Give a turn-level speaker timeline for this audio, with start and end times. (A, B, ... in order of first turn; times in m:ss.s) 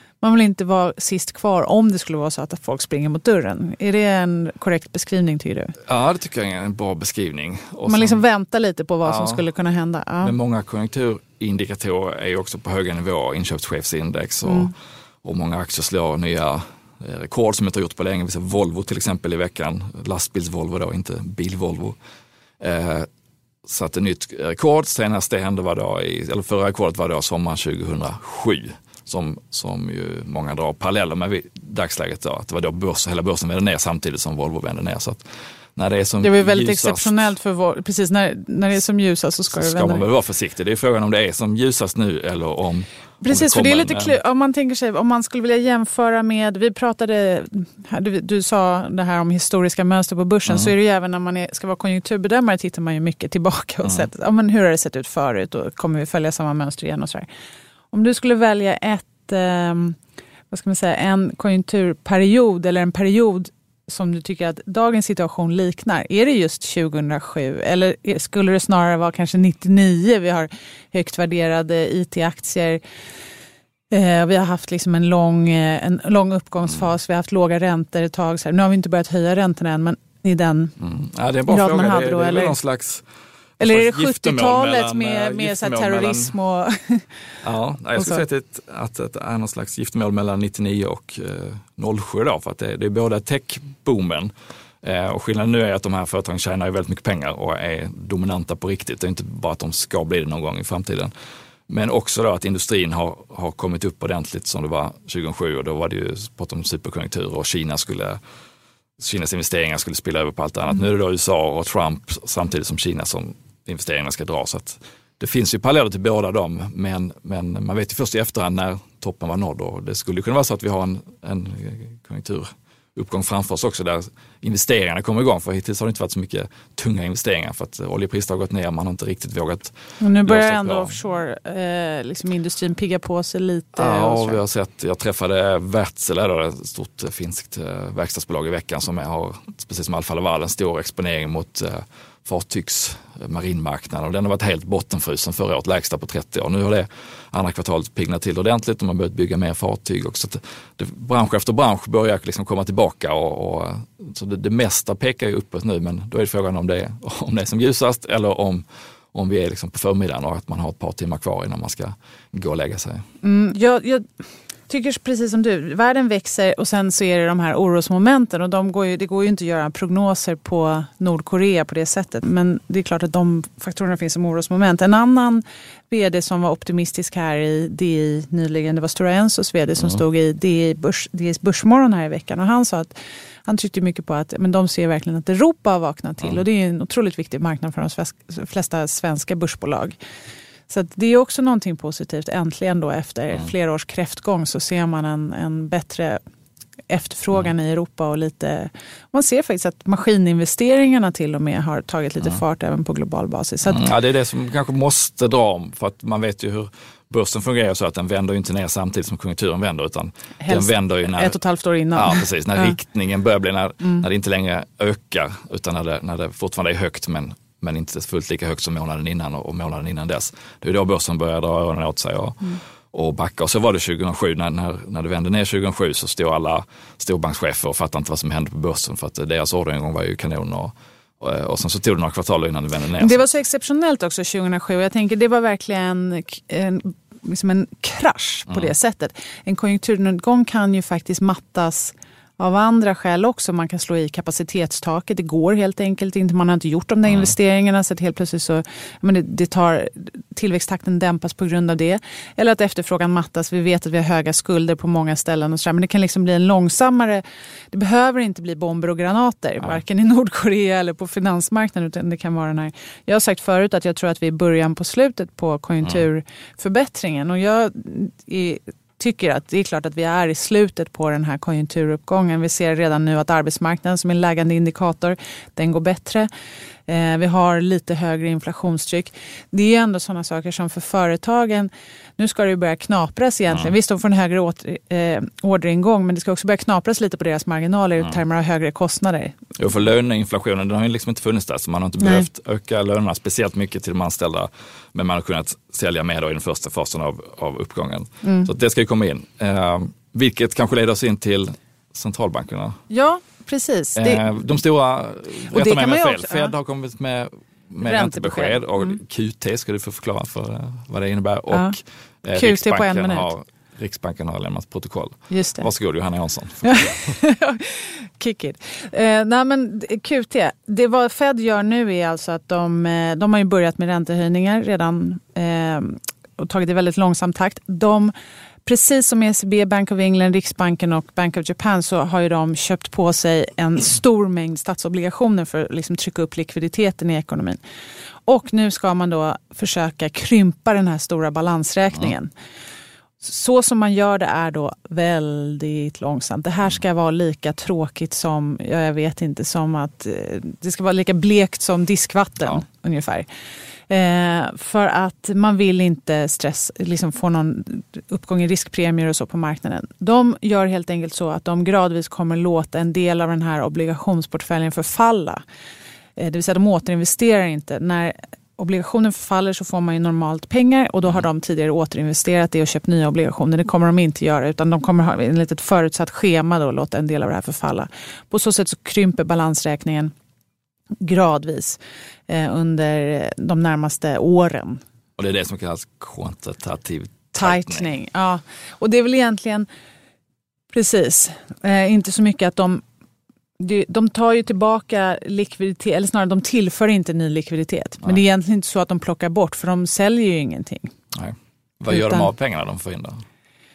0:00.2-0:05.8 A
0:05.9-0:08.2 B
0:07.9-0:10.3 A
0:09.0-0:09.4 B
0:10.2-0:14.7 B
0:14.4-0:14.7 A
0:15.2-0:22.0 B
0:22.6-0:23.1 B
0:23.6-0:35.2 B
0:35.8-0:37.2 B
0:36.2-0:40.0 A
0:39.5-0:44.2 B
0:43.2-0:57.2 A
0:57.9-1:00.0 A
1:00.5-1:12.8 A
1:13.9-1:20.8 A
1:20.8-1:23.1 B
1:21.5-1:22.6 A
1:23.6-1:26.4 B
1:23.6-1:27.1 A
1:27.4-1:41.1 B
1:28.0-1:28.2 A
1:41.7-1:48.2 B
1:49.0-2:10.9 B
2:10.0-2:14.4 A
2:13.8-2:43.0 B
2:43.2-2:44.1 A
2:44.7-3:02.9 A
3:03.5-3:10.0 A
3:10.7-3:16.2 A
3:16.9-3:23.9 A
3:23.7-3:31.4 B
3:30.4-3:32.7 A
3:31.9-3:53.2 B
3:53.0-4:36.3 A
4:36.9-4:49.3 A
4:49.6-5:02.8 B
4:52.0-4:52.3 A
4:58.2-4:58.5 A
5:02.9-5:04.3 A
5:04.0-5:17.1 B
5:05.5-5:06.6 A
5:07.8-5:09.0 A
5:11.5-5:11.8 A
5:12.3-5:13.3 A
5:15.3-5:15.7 A
5:16.6-5:28.1 A
5:28.7-5:37.6 A
5:38.3-5:42.3 A
5:43.2-5:53.3 A
5:53.9-6:05.4 A
6:06.2-6:20.1 A
6:21.0-6:24.8 A
6:25.2-6:27.8 B
6:27.3-6:29.7 A
6:30.7-6:32.8 A
6:33.6-6:40.9 A
6:41.1-6:43.2 B
6:41.9-6:42.3 A